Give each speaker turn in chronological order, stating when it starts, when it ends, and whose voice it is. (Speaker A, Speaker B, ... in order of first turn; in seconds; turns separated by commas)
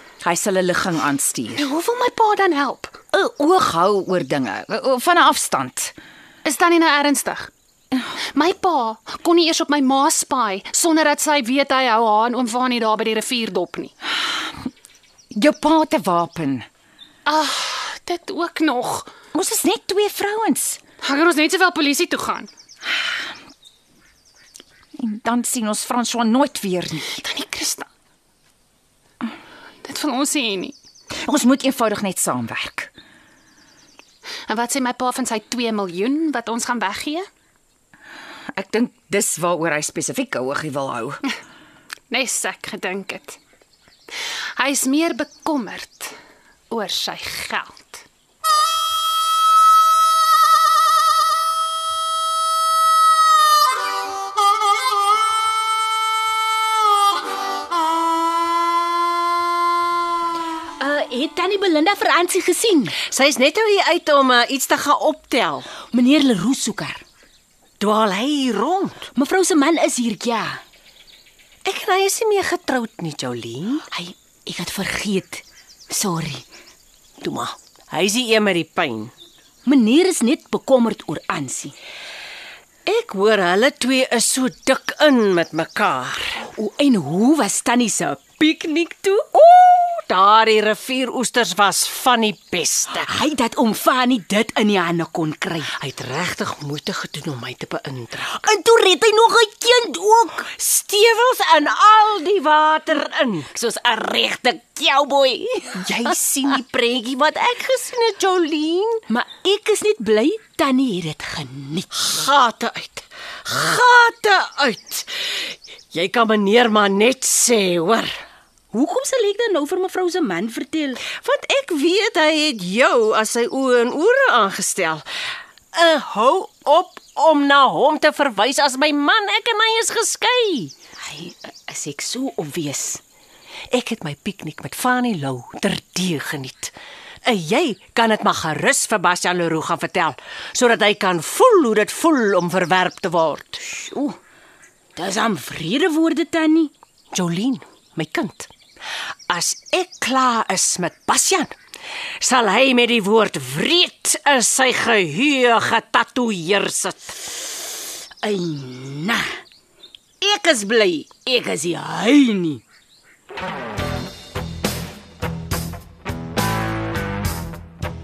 Speaker A: 0.2-1.6, Speaker B: 1.5-3.0, Speaker A: 3.1-5.9, Speaker B: 6.4-7.5, Speaker B: 8.3-13.9, Speaker A: 15.3-16.7, Speaker B: 17.2-19.1, Speaker A: 19.3-20.8, Speaker B: 21.0-22.5, Speaker A: 25.0-27.1, Speaker B: 27.1-27.9, Speaker B: 29.8-30.7, Speaker A: 31.2-32.9, Speaker B: 34.5-37.2, Speaker A: 38.5-41.2, Speaker B: 42.1-43.4, Speaker B: 44.6-46.1, Speaker B: 46.7-48.0, Speaker C: 60.8-63.0, Speaker D: 63.0-65.7, Speaker C: 65.9-67.0, Speaker D: 67.8-69.0, Speaker C: 69.1-70.6, Speaker D: 71.6-73.8, Speaker C: 73.9-76.4, Speaker D: 77.2-79.1, Speaker C: 79.6-81.7, Speaker D: 82.8-86.5, Speaker C: 86.5-89.3, Speaker D: 89.3-93.1, Speaker C: 93.0-95.7, Speaker D: 95.7-98.4, Speaker C: 98.4-100.5, Speaker D: 100.5-103.5, Speaker C: 103.5-105.9, Speaker D: 105.8-109.0, Speaker C: 109.1-111.9, Speaker D: 111.9-118.2, Speaker C: 118.7-121.0, Speaker D: 121.1-125.0, Speaker D: 125.7-130.7, Speaker C: 131.1-133.0, Speaker D: 133.7-136.7, Speaker D: 137.2-143.6, Speaker C: 143.7-144.2, Speaker C: 144.9-146.7, Speaker D: 147.1-148.5, Speaker D: 149.3-151.5, Speaker D: 152.2-157.2, Speaker C: 158.2-159.4, Speaker C: 160.2-162.6